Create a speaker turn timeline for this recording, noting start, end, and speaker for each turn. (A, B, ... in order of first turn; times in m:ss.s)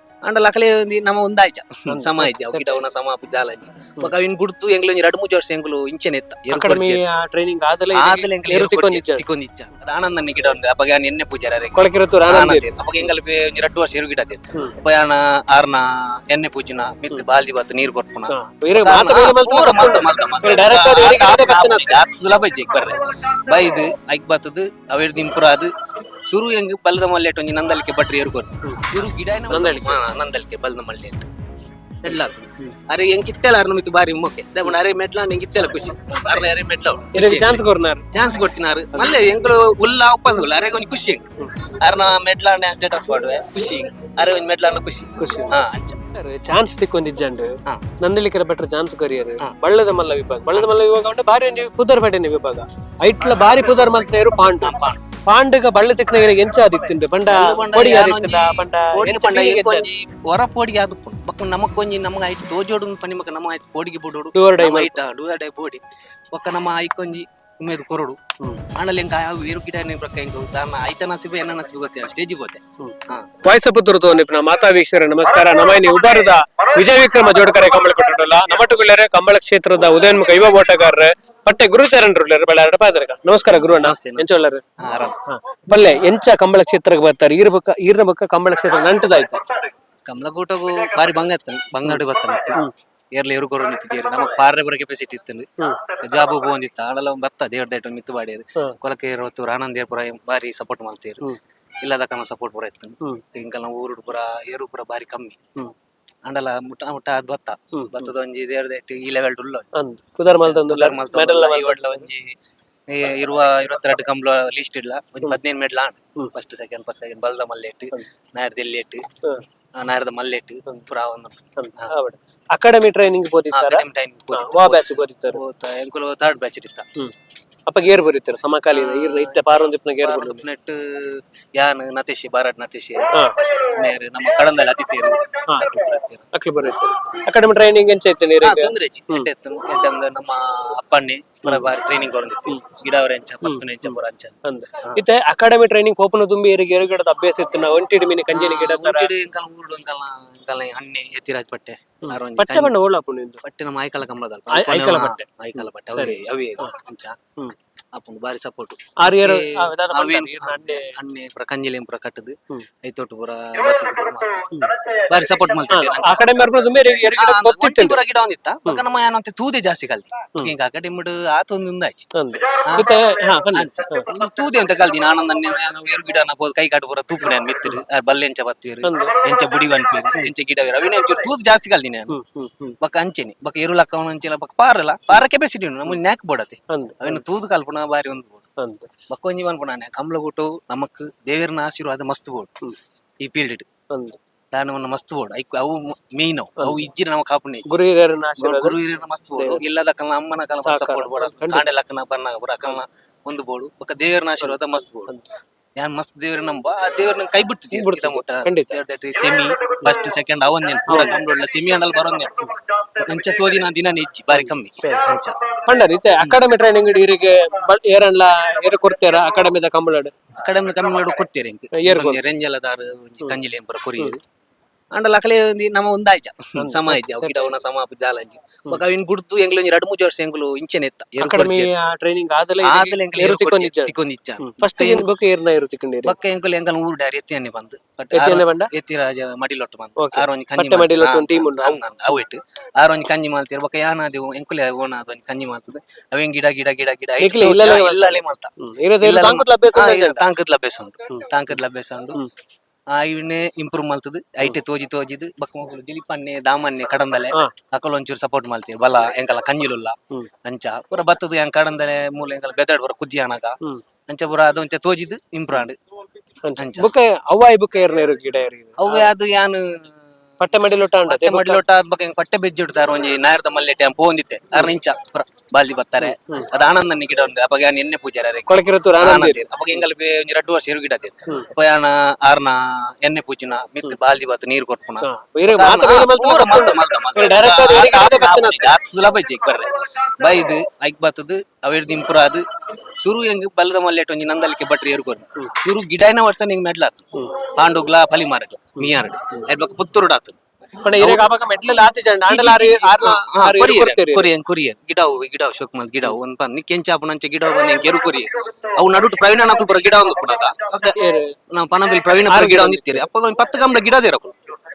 0:00.2-0:07.0 A
0:01.9-0:02.8 B
0:06.5-0:09.2 B
0:07.9-0:25.7 A
0:11.8-0:12.7 B
0:18.3-0:22.0 B
0:26.3-0:31.3 A
0:28.6-0:30.0 B
0:32.0-0:46.0 A
0:37.1-0:38.0 B
0:38.9-0:39.2 B
0:45.2-0:54.8 B
0:54.6-0:55.0 A
0:55.3-0:59.9 B
0:57.3-1:08.2 A
1:04.4-1:05.0 B
1:08.7-1:13.3 A
1:12.8-1:24.6 B
1:23.6-1:24.3 A
1:24.8-1:25.2 A
1:25.2-1:29.4 B
1:30.1-1:41.2 A
1:41.8-1:45.4 A
1:46.2-1:49.7 A
1:47.8-1:48.1 B
1:49.7-1:52.1 B
1:50.3-1:52.4 A
1:52.9-1:59.0 A
1:59.8-2:01.9 A
2:01.6-2:05.4 B
2:03.5-2:06.9 A
2:07.7-2:10.4 B
2:08.7-2:17.2 A
2:13.1-2:13.4 B
2:16.3-2:19.3 B
2:18.4-2:25.0 A
2:21.4-2:21.7 B
2:23.4-2:29.1 B
2:28.3-2:32.7 A
2:32.0-2:33.4 B
2:33.4-2:37.2 A
2:34.5-2:36.7 B
2:37.9-2:52.1 A
2:39.0-2:41.0 B
2:45.7-2:48.0 B
2:52.1-2:54.1 B
2:52.6-2:52.9 A
2:53.5-3:02.2 A
2:58.8-2:59.2 B
3:02.1-3:02.8 B
3:02.8-3:08.5 A
3:06.7-3:07.2 B
3:08.6-3:08.9 B
3:09.1-3:12.5 A
3:13.2-3:13.7 A
3:13.9-3:14.2 B
3:14.5-3:17.8 A
3:16.6-3:16.8 B
3:17.7-3:18.8 B
3:18.4-3:25.1 A
3:19.4-3:19.6 B
3:20.6-3:21.7 B
3:24.4-3:25.2 B
3:25.8-3:35.4 A
3:27.7-3:28.8 B
3:30.9-3:31.2 B
3:34.3-3:35.1 B
3:35.6-3:40.1 B
3:40.4-3:44.2 A
3:41.7-3:42.2 B
3:44.9-3:51.7 A
3:46.6-3:47.5 B
3:51.2-3:56.2 B
3:52.6-3:55.1 A
3:56.0-4:12.2 A
3:58.1-3:58.7 B
4:00.0-4:01.8 B
4:07.2-4:10.3 B
4:12.9-4:25.8 A
4:26.4-4:29.1 B
4:26.6-4:26.9 A
4:28.8-4:30.1 A
4:30.4-4:31.6 B
4:31.1-4:52.4 A
4:36.0-4:36.5 B
4:38.5-4:39.5 B
4:45.0-4:48.7 B
4:53.0-5:00.4 A
5:00.8-5:04.3 B
5:01.0-5:01.3 A
5:02.3-5:11.0 A
5:11.0-5:11.4 B
5:11.5-5:14.4 A
5:12.3-5:13.1 B